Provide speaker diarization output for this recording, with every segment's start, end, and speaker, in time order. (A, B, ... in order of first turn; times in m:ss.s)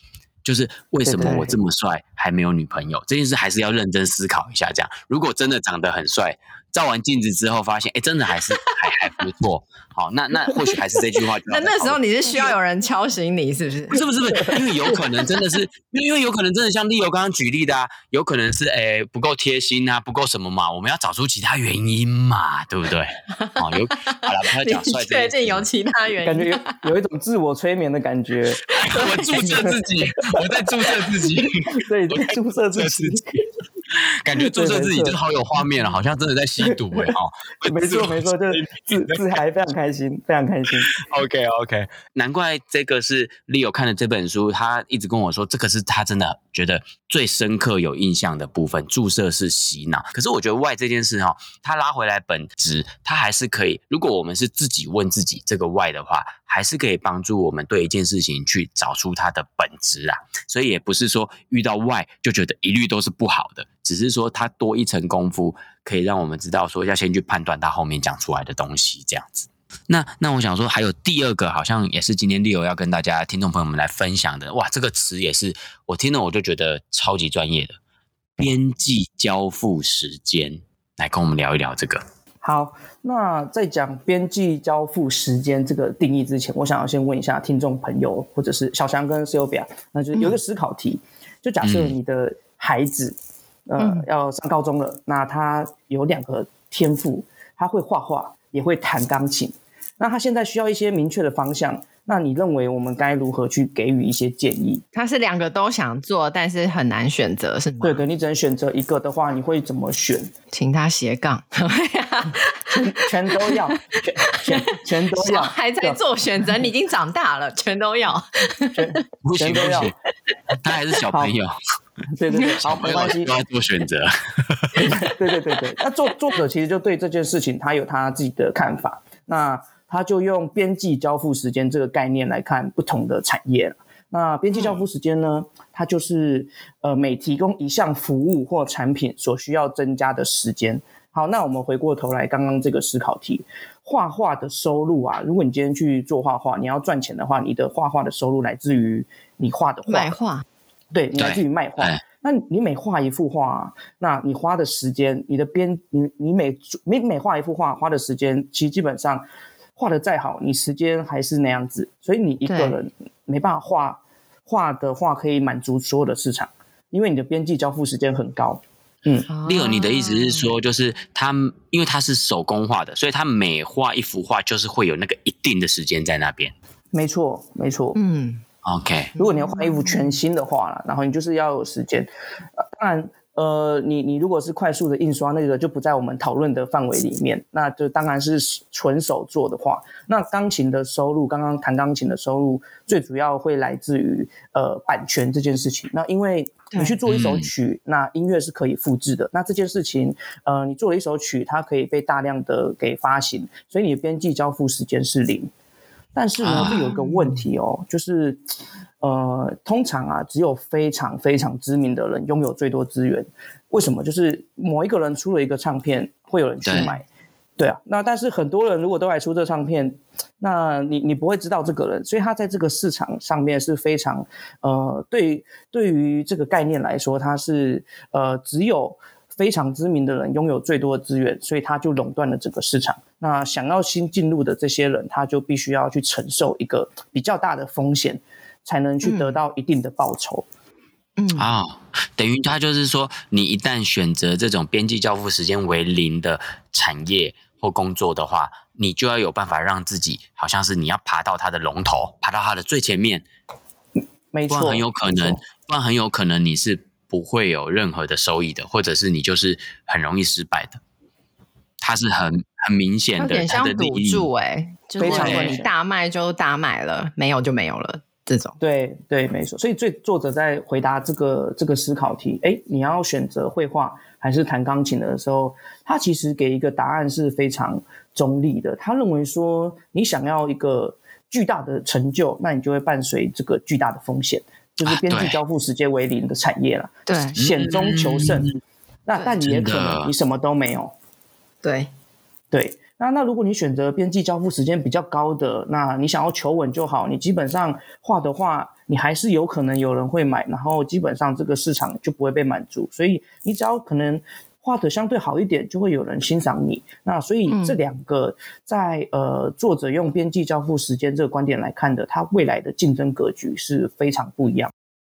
0:00.4-0:12.5 A
0:01.0-0:01.6 B
0:10.5-0:10.8 C
0:11.5-0:14.0 C
0:13.9-0:25.7 A
0:14.4-0:15.0 B
0:23.3-0:26.8 C
0:26.2-0:28.8 B
0:28.7-0:29.5 C
0:28.8-0:33.2 A
0:29.4-0:29.8 B
0:31.8-0:33.4 B
0:34.0-0:39.2 A
0:34.3-0:35.2 B
0:36.6-0:40.9 B
0:40.9-1:17.8 A
1:18.4-1:22.0 A
1:22.4-1:44.8 B
1:31.6-1:31.9 A
1:33.8-1:34.0 C
1:44.9-1:48.0 C
1:47.8-1:50.3 B
1:50.5-1:59.0 C
1:52.7-1:56.0 B
1:58.7-1:59.9 B
1:59.2-1:59.9 A
2:00.6-2:01.5 A
2:02.1-2:03.3 B
2:02.6-2:04.9 A
2:04.8-2:30.1 B
2:14.5-2:14.8 C
2:29.8-2:30.4 C
2:30.9-2:39.2 B
2:31.2-2:32.0 A
2:39.8-2:49.3 B
2:42.4-2:42.8 C
2:49.3-2:50.5 C
2:49.4-2:56.5 A
2:56.9-2:58.0 B
2:57.9-2:58.4 C
2:58.6-2:59.1 A
2:59.1-3:00.2 C
2:59.2-3:25.5 B
3:16.7-3:17.0 C
3:17.1-3:17.5 A
3:26.1-3:28.4 B
3:26.4-3:26.9 A
3:26.7-3:27.4 C
3:29.0-3:37.0 B
3:36.6-3:36.9 A
3:37.6-4:00.4 B
3:59.0-3:59.4 C
4:01.2-4:01.4 C
4:01.3-4:13.2 A
4:14.3-4:15.4 B
4:14.5-4:20.8 A
4:21.8-4:24.3 A
4:23.2-4:28.6 C
4:25.0-4:25.7 B
4:25.0-4:25.6 A
4:28.6-4:48.5 B
4:44.8-4:45.4 A
4:47.1-4:47.4 C
4:47.4-4:48.6 A
4:49.0-4:50.9 B
4:49.4-4:50.1 A
4:51.6-4:51.9 C
4:52.5-5:14.7 B
5:07.5-5:07.8 C